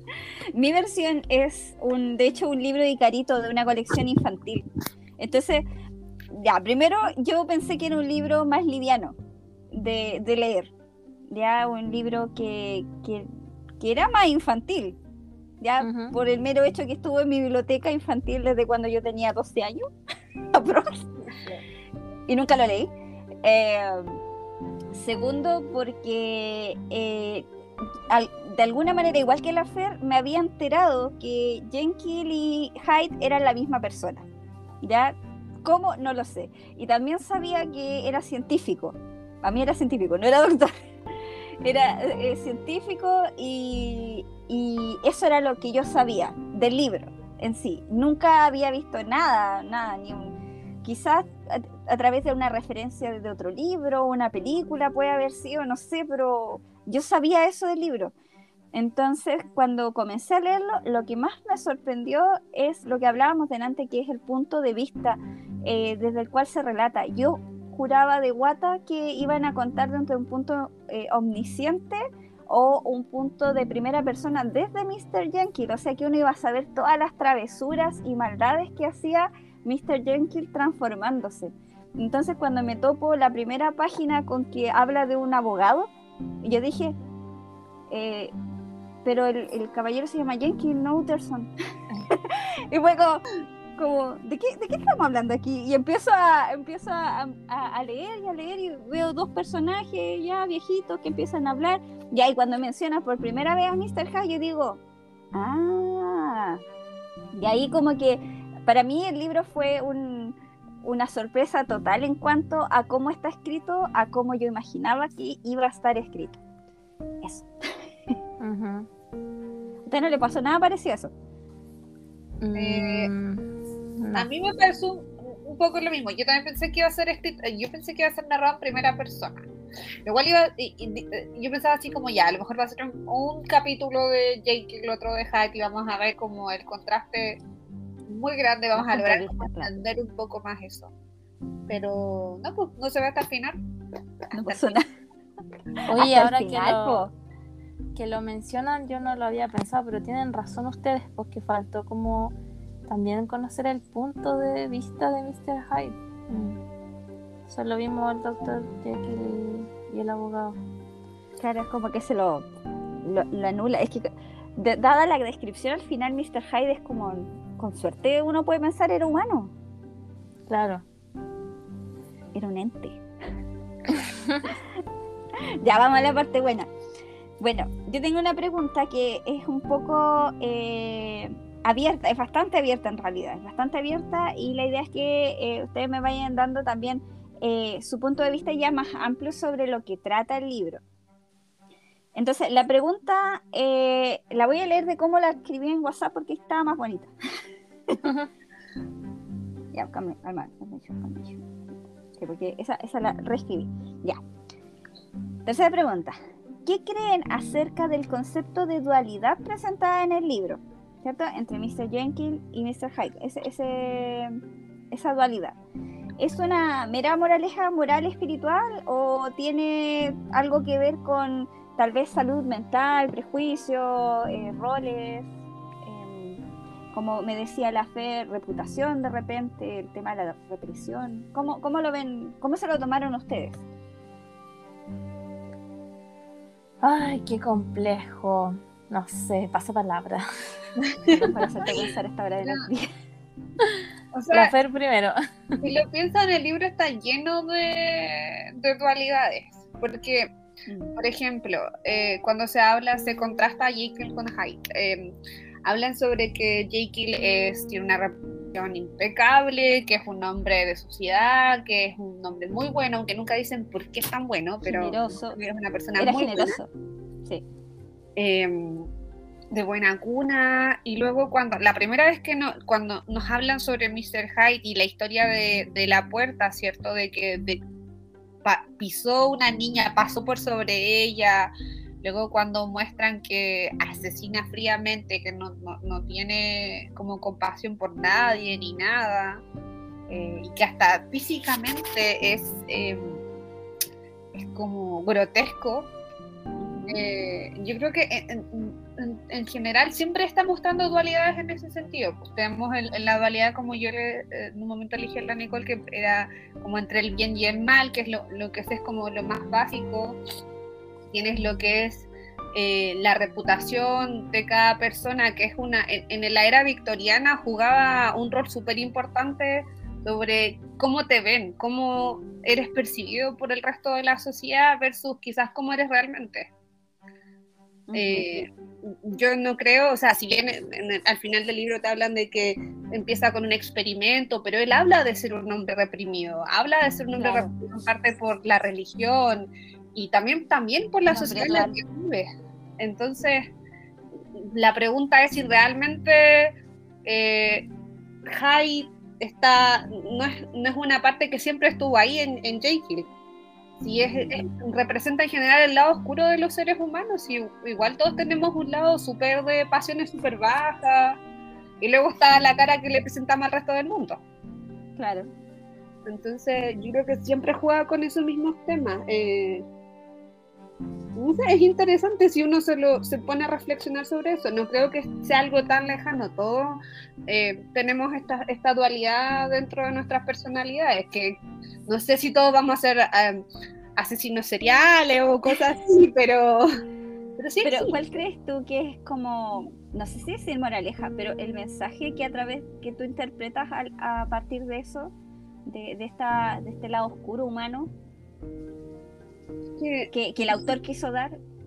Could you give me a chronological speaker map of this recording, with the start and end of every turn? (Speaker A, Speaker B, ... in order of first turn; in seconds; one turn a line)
Speaker A: 0.6-4.7
Speaker A: 5.2-5.6
Speaker A: 6.3-9.2
Speaker A: 9.7-10.7
Speaker A: 11.3-13.3
Speaker A: 13.8-15.0
Speaker A: 15.6-19.9
Speaker B: 15.8-16.1
Speaker A: 20.5-21.1
Speaker C: 21.3-21.6
Speaker A: 22.3-22.9
Speaker A: 23.4-24.2
Speaker A: 24.9-27.5
Speaker A: 28.1-34.3
Speaker A: 34.8-40.7
Speaker A: 41.6-58.1
Speaker A: 58.7-85.9
Speaker A: 86.4-87.0
Speaker A: 87.9-88.3
Speaker A: 89.0-91.5
Speaker A: 92.1-93.2
Speaker A: 93.8-104.8
Speaker A: 105.3-106.6
Speaker A: 107.4-116.4
Speaker A: 117.2-117.5
Speaker B: 118.4-118.9
Speaker A: 119.9-121.1
Speaker B: 122.4-123.4
Speaker C: 122.5-123.1
Speaker B: 124.0-124.3
Speaker C: 124.2-129.5
Speaker C: 130.1-137.4
Speaker C: 138.1-140.9
Speaker A: 138.8-139.7
Speaker C: 141.7-143.6
Speaker A: 144.3-144.8
Speaker C: 144.5-144.8
Speaker A: 145.8-147.1
Speaker B: 145.9-147.1
Speaker B: 148.0-152.3
Speaker B: 152.9-156.6
Speaker B: 157.5-160.6
Speaker A: 161.4-162.5
Speaker A: 163.1-169.5
Speaker B: 170.5-170.8
Speaker A: 172.3-173.0
Speaker B: 173.9-174.4
Speaker A: 175.6-176.7
Speaker A: 177.4-190.8
Speaker A: 192.2-197.1
Speaker B: 198.0-198.3
Speaker A: 199.7-201.4
Speaker A: 202.2-204.2
Speaker A: 205.5-214.4
Speaker A: 214.9-215.6
Speaker A: 216.2-225.3
Speaker A: 225.8-226.4
Speaker A: 226.9-233.6
Speaker B: 236.8-240.2
Speaker C: 240.9-241.2
Speaker A: 241.1-242.9
Speaker B: 243.6-245.2
Speaker C: 244.1-244.5
Speaker C: 245.6-250.3
Speaker C: 251.0-266.6
Speaker A: 264.6-265.4
Speaker A: 266.0-266.7
Speaker C: 268.2-268.9
Speaker C: 269.5-277.6
Speaker C: 278.4-281.5
Speaker C: 282.0-289.4
Speaker C: 290.1-293.2
Speaker C: 294.3-295.9
Speaker A: 296.6-297.0
Speaker C: 296.9-310.2
Speaker C: 311.1-326.5
Speaker A: 327.9-328.3
Speaker C: 327.9-342.3
Speaker A: 337.2-337.5
Speaker A: 341.1-341.8
Speaker C: 342.8-343.5
Speaker C: 344.4-346.5
Speaker C: 347.1-347.7
Speaker C: 348.3-353.1
Speaker C: 353.8-361.2
Speaker A: 354.0-354.4
Speaker C: 361.8-364.2
Speaker A: 365.0-365.3
Speaker C: 366.1-369.6
Speaker C: 371.2-383.4
Speaker C: 384.0-386.7
Speaker C: 387.4-388.0
Speaker A: 387.6-395.1
Speaker A: 395.7-397.9
Speaker C: 399.8-400.1
Speaker A: 400.1-401.4